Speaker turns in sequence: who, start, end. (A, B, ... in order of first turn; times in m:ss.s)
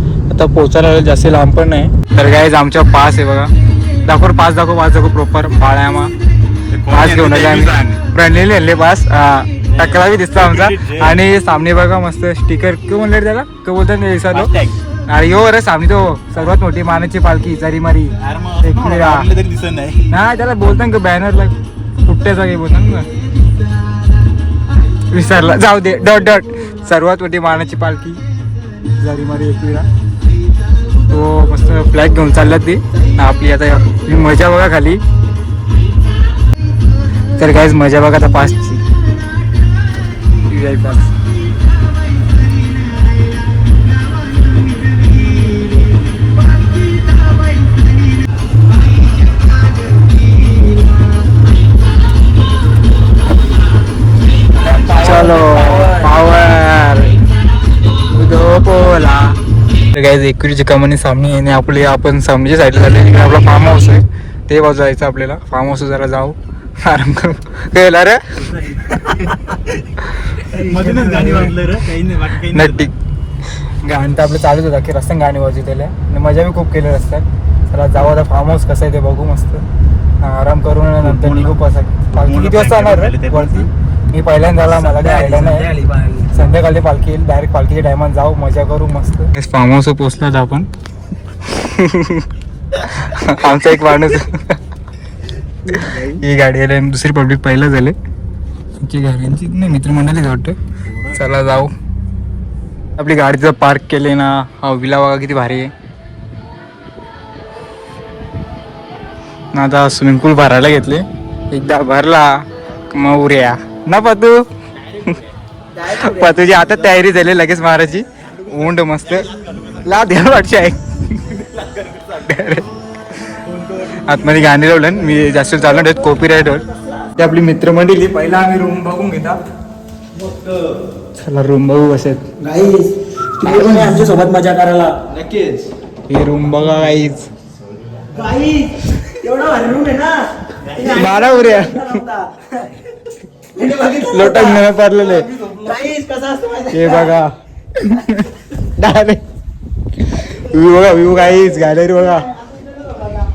0:00.3-0:03.5 A
0:04.0-0:06.1 A
0:06.7-0:08.0 B
0:06.9-0:14.5 A
0:09.8-0:11.2 B
0:14.3-0:14.7 B
0:15.1-0:19.3 A
0:18.2-0:20.0 B
0:20.1-0:23.1 A
0:25.1-0:28.2 A
0:29.0-0:29.9 A
0:31.1-0:35.0 A
0:37.4-0:38.8 A
0:40.5-0:41.1 A
0:54.6-0:56.1 C
0:54.9-0:57.2 A
0:58.1-0:59.4 A
0:59.9-1:08.5 A
1:08.6-1:09.5 B
1:10.4-1:12.9 B
1:10.5-1:11.5 C
1:12.5-1:12.9 A
1:13.6-1:19.6 A
1:20.2-1:25.7 A
1:21.0-1:21.6 B
1:22.1-1:23.7 B
1:24.8-1:26.4 C
1:26.3-1:30.7 A
1:31.4-1:34.6 A
1:35.7-1:38.0 A
1:38.8-1:40.6 A
1:41.1-1:41.7 A
1:43.0-1:45.7 A
1:49.5-1:54.4 A
1:55.7-1:56.5 C
1:55.8-2:01.4 A
2:01.6-2:02.0 B
2:02.1-2:03.4 A
2:03.5-2:04.5 B
2:03.9-2:09.4 A
2:11.2-2:12.2 A
2:12.4-2:15.0 C
2:15.2-2:15.7 B
2:16.1-2:17.3 A
2:18.1-2:22.6 C
2:20.8-2:22.0 A
2:23.5-2:24.7 C
2:24.0-2:25.3 A
2:25.5-2:27.2 C
2:26.7-2:29.2 A
2:30.0-2:32.3 A